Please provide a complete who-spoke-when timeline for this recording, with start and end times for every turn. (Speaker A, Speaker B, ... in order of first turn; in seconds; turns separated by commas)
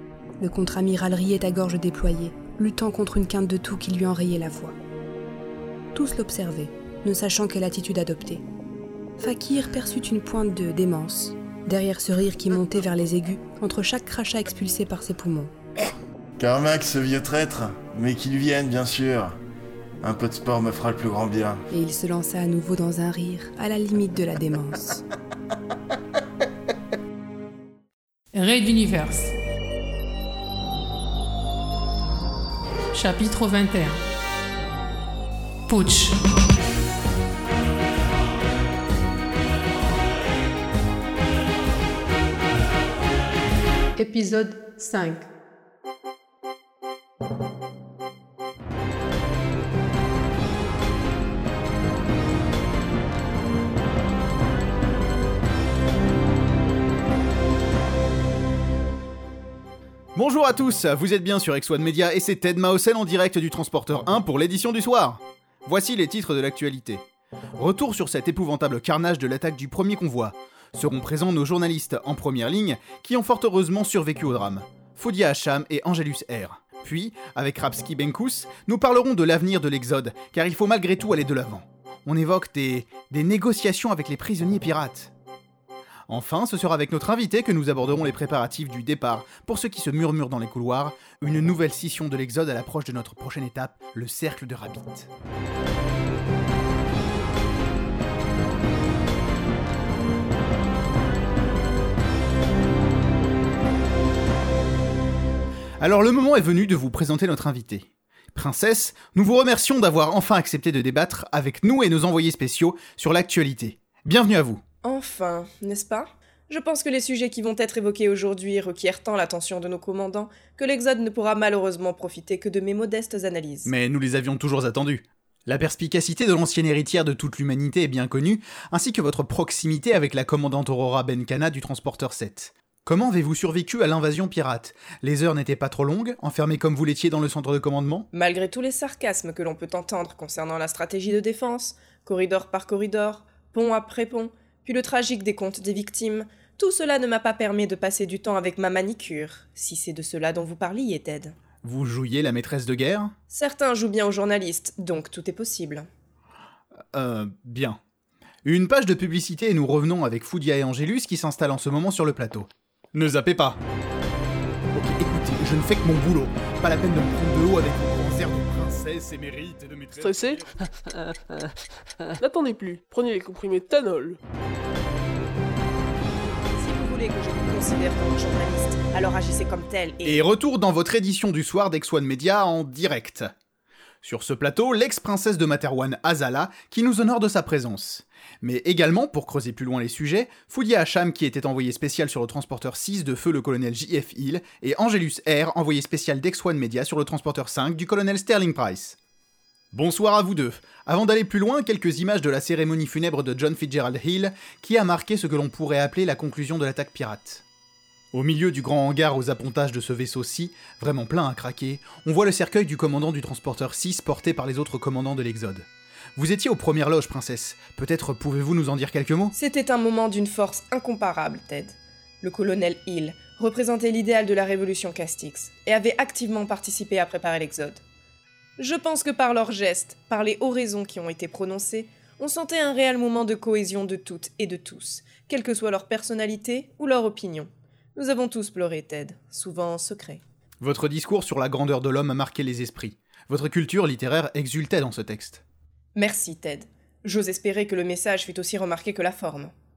Speaker A: 0.4-4.7, Speaker A: 5.9-8.4, Speaker A: 9.2-15.5, Speaker B: 16.4-19.4, Speaker B: 20.0-21.6, Speaker A: 21.7-25.0, Speaker C: 28.3-29.3, Speaker C: 32.9-34.0, Speaker C: 35.7-36.2, Speaker C: 44.0-45.2, Speaker D: 60.1-67.0, Speaker D: 67.5-85.1, Speaker D: 86.1-95.1, Speaker D: 105.8-114.6, Speaker E: 114.8-123.7, Speaker D: 123.7-138.1, Speaker E: 138.1-151.3, Speaker D: 151.6-153.1, Speaker E: 153.3-155.8, Speaker D: 156.9-157.8, Speaker D: 158.4-163.6, Speaker D: 164.7-170.5, Speaker F: 169.9-170.7, Speaker F: 172.2-174.2, Speaker E: 176.6-180.2, Speaker D: 180.0-183.3, Speaker D: 184.0-199.0, Speaker D: 199.7-207.4, Speaker D: 208.1-219.3, Speaker E: 219.3-227.8, Speaker E: 228.6-240.2, Speaker D: 240.6-245.4, Speaker E: 245.9-249.5